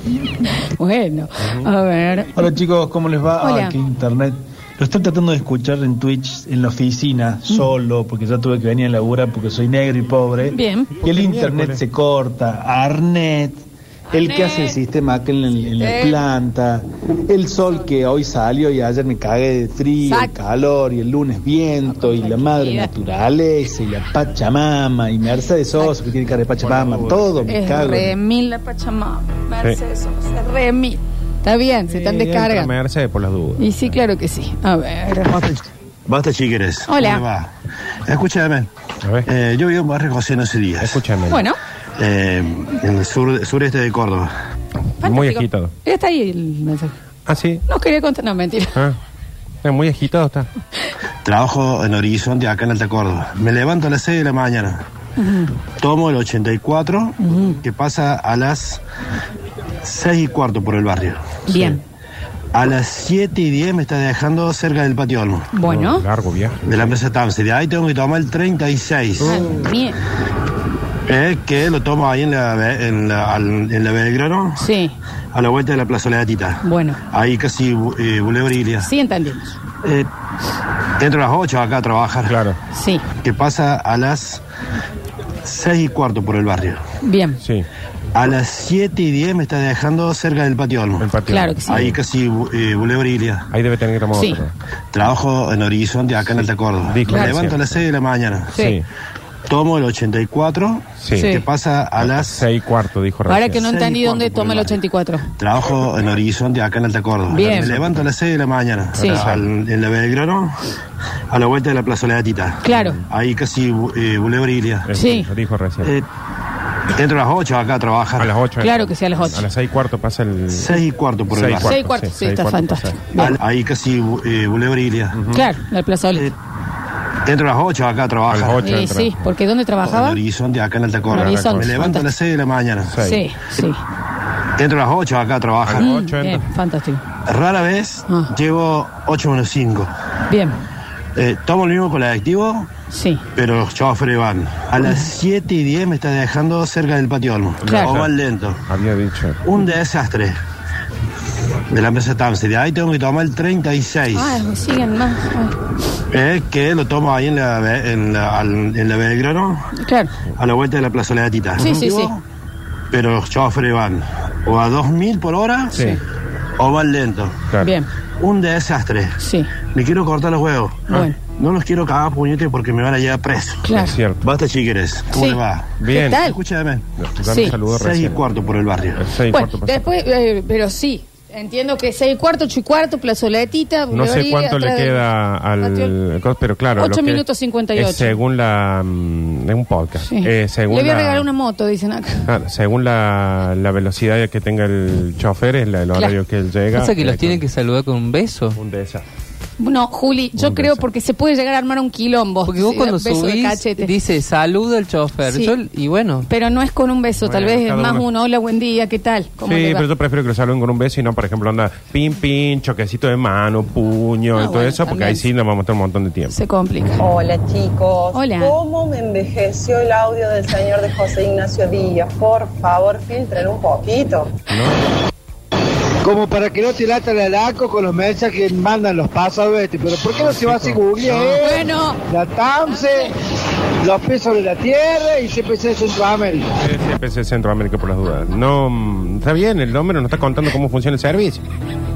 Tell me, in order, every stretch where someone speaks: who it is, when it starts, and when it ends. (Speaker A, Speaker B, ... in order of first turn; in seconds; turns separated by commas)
Speaker A: 0.6-2.3, Speaker B: 1.4-1.6, Speaker C: 2.4-28.1, Speaker A: 3.4-3.7, Speaker A: 10.5-10.9, Speaker B: 11.1-11.8, Speaker A: 14.1-14.8, Speaker A: 15.8-16.2, Speaker A: 20.1-20.3, Speaker A: 21.9-22.9, Speaker B: 26.6-27.6, Speaker A: 27.5-32.7, Speaker B: 31.9-34.0, Speaker A: 33.6-35.4, Speaker D: 35.2-37.5, Speaker A: 36.9-37.2, Speaker D: 38.1-38.7, Speaker D: 39.2-41.0, Speaker B: 40.8-41.4, Speaker A: 41.3-41.6, Speaker D: 42.0-44.3, Speaker A: 45.0-46.9, Speaker B: 45.0-45.7, Speaker B: 47.3-47.6, Speaker A: 47.7-48.8, Speaker B: 49.6-50.5, Speaker D: 51.2-54.8, Speaker A: 55.2-55.6, Speaker D: 55.8-58.8, Speaker A: 57.2-57.6, Speaker D: 59.8-61.8, Speaker A: 61.5-61.8, Speaker D: 62.5-65.5, Speaker A: 65.5-66.0, Speaker B: 65.7-66.9, Speaker D: 66.6-69.5, Speaker A: 69.2-70.0, Speaker D: 71.1-74.6, Speaker A: 74.6-75.0, Speaker D: 75.3-78.9, Speaker A: 76.6-77.0, Speaker A: 78.8-79.5, Speaker D: 81.0-82.4, Speaker B: 82.3-82.6, Speaker A: 82.7-83.0, Speaker D: 83.2-84.4, Speaker D: 85.4-86.8, Speaker A: 87.0-87.4, Speaker B: 87.4-87.7, Speaker D: 88.1-91.1, Speaker B: 91.0-92.0, Speaker A: 91.3-91.8, Speaker D: 91.7-93.5, Speaker B: 93.5-94.5, Speaker D: 94.9-98.6, Speaker B: 96.3-97.8, Speaker A: 97.1-97.4, Speaker B: 98.5-98.8, Speaker D: 99.5-102.5, Speaker B: 101.0-101.3, Speaker A: 101.1-101.4, Speaker B: 102.0-103.7, Speaker A: 103.3-105.3, Speaker D: 103.6-104.8, Speaker D: 105.4-110.6, Speaker A: 107.3-107.7, Speaker B: 107.4-108.0, Speaker A: 109.0-109.2, Speaker B: 109.0-109.5, Speaker D: 111.3-114.9, Speaker A: 112.6-113.0, Speaker B: 112.7-113.0, Speaker B: 114.8-115.9, Speaker A: 114.9-115.3, Speaker D: 116.9-118.3, Speaker B: 118.2-123.0, Speaker A: 118.6-119.5, Speaker D: 120.5-121.7, Speaker A: 121.6-123.3, Speaker D: 123.2-125.2, Speaker B: 125.1-125.5, Speaker A: 125.3-126.3, Speaker D: 127.2-128.7, Speaker B: 128.3-129.2, Speaker A: 128.6-130.2, Speaker D: 129.8-132.9, Speaker B: 131.1-131.9, Speaker A: 131.1-132.1, Speaker B: 132.9-133.2, Speaker A: 133.0-133.8, Speaker D: 134.6-135.9, Speaker B: 135.6-136.4, Speaker A: 135.8-137.0, Speaker D: 137.2-139.9, Speaker A: 140.3-140.6, Speaker D: 141.2-142.7, Speaker A: 142.9-143.2, Speaker D: 143.3-148.6, Speaker B: 147.6-148.1, Speaker A: 147.6-147.9, Speaker B: 148.7-149.4, Speaker D: 149.4-150.3, Speaker D: 151.7-154.4, Speaker A: 154.1-155.6, Speaker D: 156.1-159.7, Speaker A: 159.7-160.1, Speaker D: 160.3-162.2, Speaker B: 161.6-161.8, Speaker A: 161.6-162.1, Speaker D: 162.9-165.8, Speaker A: 165.7-166.0, Speaker D: 166.6-167.4, Speaker A: 167.6-167.9, Speaker D: 168.2-169.2, Speaker A: 169.2-169.5, Speaker D: 169.7-176.8, Speaker A: 170.9-171.2, Speaker A: 173.6-173.9, Speaker B: 173.7-174.2, Speaker A: 175.1-176.4, Speaker B: 175.8-176.2, Speaker B: 177.0-178.2, Speaker A: 177.2-177.6, Speaker D: 177.6-179.0, Speaker B: 178.9-179.9, Speaker A: 179.3-185.0, Speaker B: 183.9-191.3, Speaker A: 185.6-185.9, Speaker A: 186.8-188.2, Speaker A: 190.0-192.3, Speaker B: 192.2-197.4, Speaker E: 196.7-198.6, Speaker B: 198.6-199.0, Speaker A: 199.6-203.9, Speaker B: 200.4-200.8, Speaker E: 202.4-206.3, Speaker A: 205.2-205.5, Speaker A: 206.2-209.8, Speaker B: 207.2-208.1, Speaker B: 209.4-216.4, Speaker A: 214.3-215.2, Speaker A: 216.3-217.0, Speaker F: 217.0-224.3, Speaker A: 218.1-218.6, Speaker B: 224.5-224.8, Speaker G: 226.0-231.4, Speaker B: 229.9-231.7, Speaker A: 231.4-232.0, Speaker G: 232.1-233.1, Speaker G: 233.8-236.4, Speaker B: 236.6-241.4